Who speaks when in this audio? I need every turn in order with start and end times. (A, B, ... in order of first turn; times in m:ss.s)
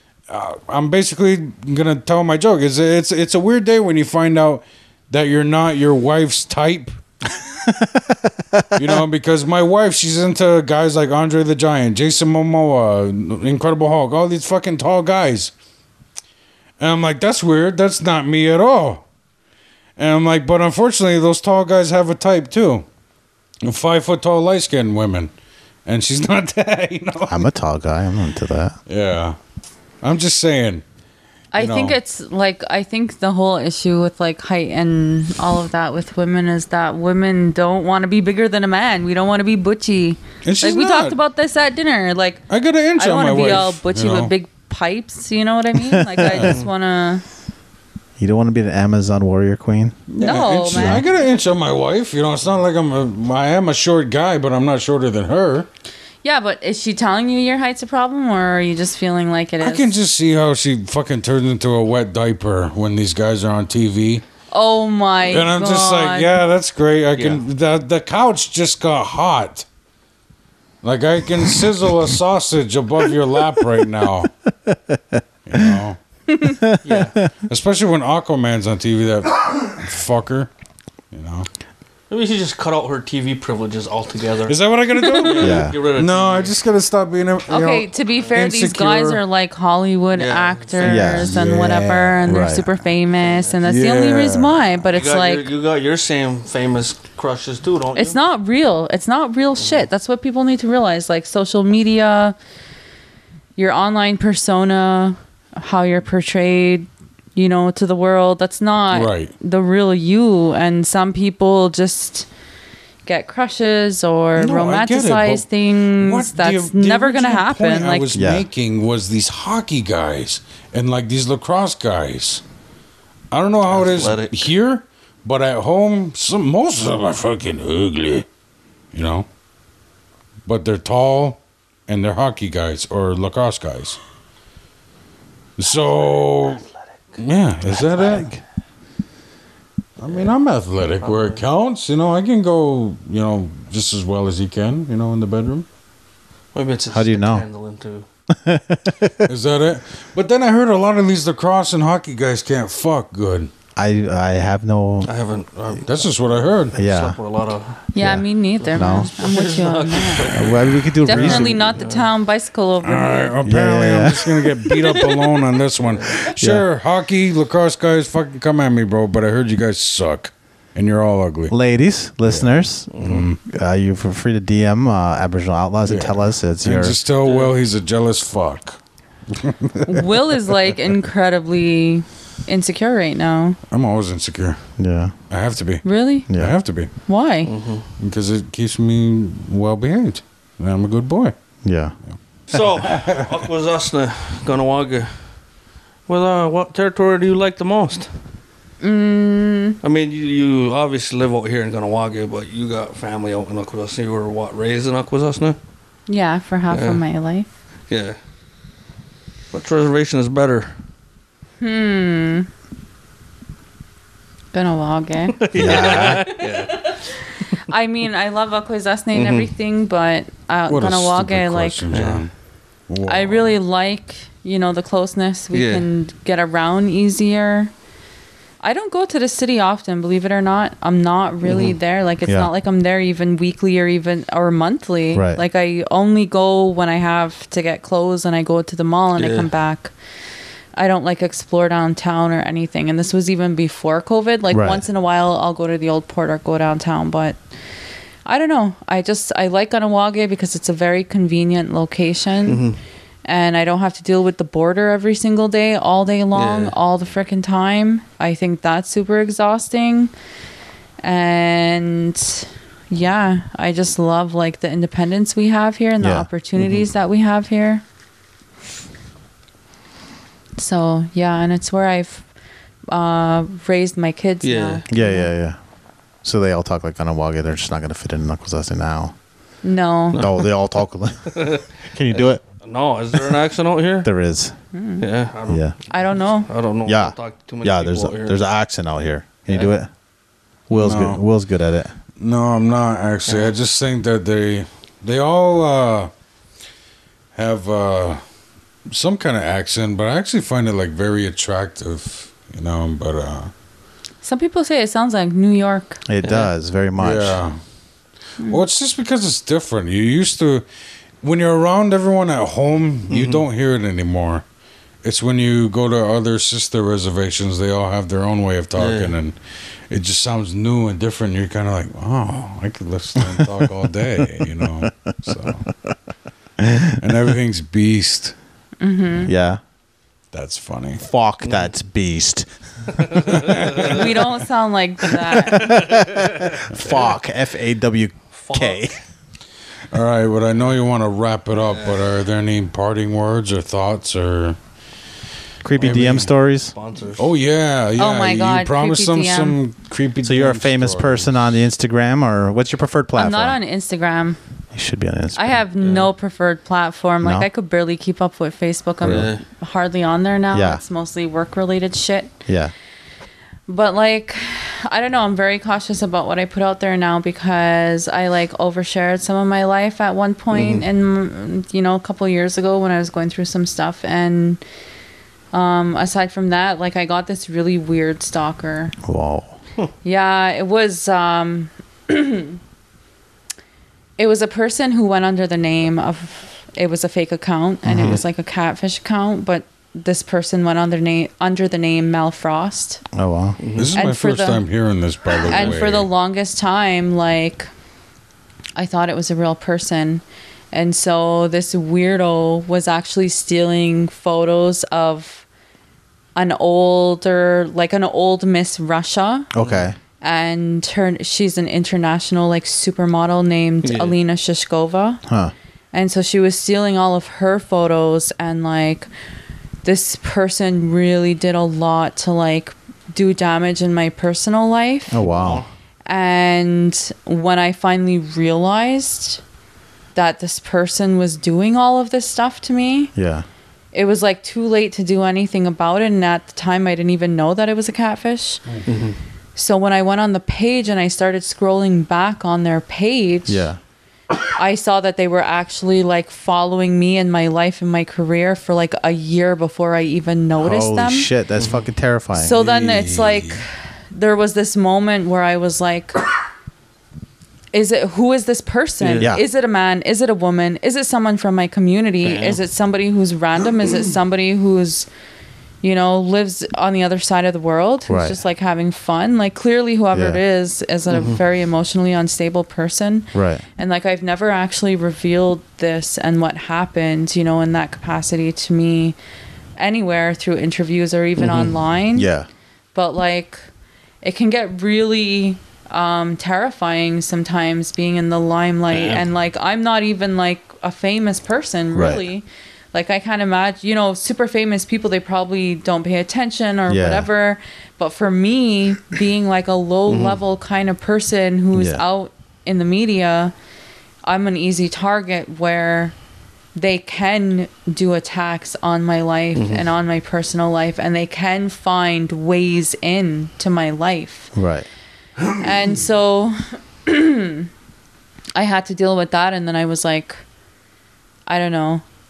0:00.3-0:07.0 A
0:07.6-0:09.0 B
0:08.8-0:15.5 A
0:16.8-0:19.0 A
0:20.0-0:22.8 A
0:23.6-0:25.3 A
0:25.8-0:27.4 A
0:27.3-0:28.8 B
0:28.9-0:29.4 A
0:30.0-0:30.8 A
0:31.5-0:47.2 C
0:31.5-0:32.0 A
0:40.4-0:41.2 A
0:42.5-0:44.3 A
0:45.9-0:46.5 B
0:48.2-0:50.0 B
0:50.1-0:55.7 A
0:50.2-0:51.0 C
0:50.7-0:51.0 B
0:56.2-0:59.9 C
0:59.6-1:04.2 A
1:04.5-1:06.3 C
1:05.2-1:09.6 A
1:07.1-1:07.4 D
1:10.8-1:14.3 A
1:14.6-1:15.8 B
1:15.4-1:16.0 A
1:16.4-1:17.3 B
1:16.8-1:17.2 D
1:17.4-1:20.5 A
1:21.1-1:21.5 A
1:22.1-1:24.6 D
1:24.4-1:29.2 A
1:25.0-1:25.4 C
1:25.2-1:26.5 D
1:25.4-1:25.8 B
1:27.5-1:35.5 C
1:30.1-1:31.1 D
1:30.8-1:31.6 B
1:31.0-1:32.4 A
1:32.2-1:32.7 B
1:33.2-1:33.6 D
1:33.6-1:34.6 A
1:34.9-1:38.2 D
1:37.9-1:42.4 C
1:39.6-1:39.8 D
1:43.6-1:52.3 C
1:48.9-1:49.3 A
1:53.0-1:58.1 C
1:54.4-2:02.4 A
1:58.1-1:58.5 B
2:03.3-2:08.2 A
2:03.7-2:04.5 D
2:08.9-2:09.3 A
2:10.4-2:14.0 A
2:15.6-2:16.6 A
2:17.2-2:18.3 A
2:18.1-2:18.4 B
2:20.0-2:25.7 A
2:21.0-2:21.4 D
2:26.5-2:28.0 D
2:26.9-2:27.4 B
2:28.3-2:29.3 B
2:29.3-2:33.5 A
2:33.8-2:35.1 B
2:35.0-2:37.8 D
2:35.9-2:36.8 A
2:36.7-2:37.2 B
2:37.9-2:43.3 C
2:38.0-2:39.1 B
2:38.6-2:42.1 D
2:40.3-2:41.6 B
2:41.1-2:41.5 A
2:42.8-2:51.5 A
2:43.4-2:44.3 B
2:45.8-2:46.2 D
2:46.4-2:46.6 B
2:51.5-2:57.0 B
2:52.3-2:53.4 A
2:52.9-2:53.2 D
2:55.8-2:58.8 A
2:57.2-2:57.5 D
2:59.3-3:00.1 A
2:59.9-3:03.6 C
3:03.7-3:04.6 A
3:04.8-3:05.1 B
3:05.3-3:06.9 A
3:05.8-3:06.3 C
3:06.3-3:06.6 B
3:07.1-3:07.5 C
3:07.4-3:07.9 D
3:08.0-3:11.3 A
3:11.6-3:11.9 B
3:12.1-3:13.4 A
3:12.5-3:15.3 D
3:16.1-3:18.1 D
3:18.8-3:19.8 C
3:19.8-3:25.6 D
3:26.1-3:27.5 C
3:26.7-3:27.0 D
3:27.9-3:28.2 D
3:29.5-3:30.7 D
3:31.6-3:32.5 C
3:34.5-3:41.8 C
3:35.3-3:36.9 D
3:35.5-3:36.2 B
3:39.1-3:39.5 D
3:40.7-3:42.3 A
3:41.9-3:42.2 D
3:42.9-3:43.6 A
3:43.0-3:47.7 C
3:45.5-3:45.8 D
3:48.6-3:59.9 C
3:51.4-3:51.8 D
3:52.2-3:52.5 B
3:55.1-3:55.4 B
3:59.2-3:59.5 D
4:00.7-4:07.4 C
4:04.5-4:04.8 B
4:08.2-4:12.6 C
4:12.4-4:12.8 D
4:13.2-4:20.1 C
4:16.3-4:16.7 D
4:21.0-4:27.8 C
4:26.0-4:26.3 B
4:26.6-4:26.9 D
4:30.6-4:32.2 C
4:32.9-4:35.3 C
4:34.4-4:34.8 D
4:34.9-4:35.6 B
4:36.2-4:39.1 B
4:39.6-4:40.2 C
4:40.1-4:40.5 D
4:40.1-4:42.4 B
4:41.3-4:44.1 D
4:44.0-4:44.5 B
4:44.7-4:45.0 C
4:45.0-4:45.7 D
4:45.5-4:45.7 B
4:45.9-4:46.5 C
4:46.4-4:48.4 D
4:46.8-4:49.9 B
4:50.7-4:51.2 A
4:50.7-4:51.9 B
4:52.2-4:56.1 A
4:53.3-4:53.5 D
4:57.3-4:58.2 A
4:58.9-5:03.5 A
5:04.2-5:06.0 C
5:06.0-5:07.4 B
5:06.2-5:06.5 D
5:07.0-5:07.6 A
5:08.4-5:10.6 A
5:11.2-5:14.4 A
5:13.1-5:13.4 D
5:15.0-5:19.4 A
5:18.8-5:19.1 D
5:19.9-5:25.7 A
5:24.6-5:24.9 B
5:26.6-5:27.2 B
5:27.0-5:28.3 A
5:28.8-5:29.3 C
5:29.2-5:29.6 B
5:30.3-5:31.0 A
5:31.0-5:32.5 B
5:31.4-5:31.7 D
5:32.9-5:34.0 D
5:33.3-5:34.1 A
5:33.9-5:35.8 C
5:35.4-5:37.0 D
5:35.5-5:39.0 B
5:38.3-5:38.9 D
5:39.9-5:44.6 A
5:45.6-5:46.7 B
5:45.8-5:46.3 A
5:45.8-5:47.3 D
5:47.2-5:51.2 A
5:48.0-5:49.6 C
5:50.2-5:53.6 B
5:53.2-5:54.4 C
5:54.7-5:55.6 B
5:55.3-6:02.3 C
5:55.8-5:56.1 D
5:57.2-5:57.5 B
5:59.0-5:59.3 B
5:59.0-5:59.4 D
6:00.5-6:00.8 B
6:02.5-6:02.7 B
6:03.7-6:14.6 C
6:10.5-6:10.8 D
6:15.5-6:18.9 C
6:19.0-6:19.6 B
6:20.0-6:22.6 C
6:24.2-6:33.0 C
6:27.8-6:28.2 B
6:33.1-6:33.6 B
6:33.6-6:34.0 D
6:33.7-6:36.1 A
6:34.0-6:34.6 C
6:35.4-6:35.7 D
6:35.4-6:37.7 C
6:38.8-6:45.4 C
6:46.3-6:49.5 C
6:49.5-6:50.0 B
6:49.6-6:49.8 D
6:50.2-6:55.2 C
6:53.8-6:54.1 D
6:55.2-6:55.5 B
6:55.9-6:59.1 C
6:59.8-7:05.2 C
7:05.1-7:05.6 B
7:05.2-7:05.6 D
7:06.0-7:09.4 C
7:10.1-7:13.1 C
7:13.1-7:13.4 B
7:13.9-7:18.6 C
7:18.8-7:19.2 D
7:19.6-7:23.7 C
7:23.5-7:23.8 B
7:24.5-7:31.3 C
7:30.6-7:32.6 B
7:31.6-7:31.8 D
7:32.3-7:36.2 C
7:32.5-7:33.6 A
7:37.7-7:45.1 C
7:39.0-7:39.3 D
7:42.2-7:42.6 D
7:45.8-7:59.2 C
7:48.1-7:48.4 B
7:50.1-7:50.4 B
7:51.1-7:51.4 D
7:53.3-7:53.6 B
7:59.8-8:02.3 C
8:01.4-8:01.7 D
8:02.1-8:02.5 B
8:02.9-8:03.7 C
8:04.2-8:23.5 C
8:08.9-8:09.2 D
8:11.9-8:12.2 B
8:16.9-8:17.3 B
8:20.1-8:20.4 D
8:21.7-8:22.0 B
8:24.2-8:26.1 C
8:26.7-8:34.5 C
8:29.6-8:29.8 D
8:34.5-8:34.9 B
8:35.5-8:37.7 C
8:38.5-8:40.4 C
8:41.5-8:42.0 C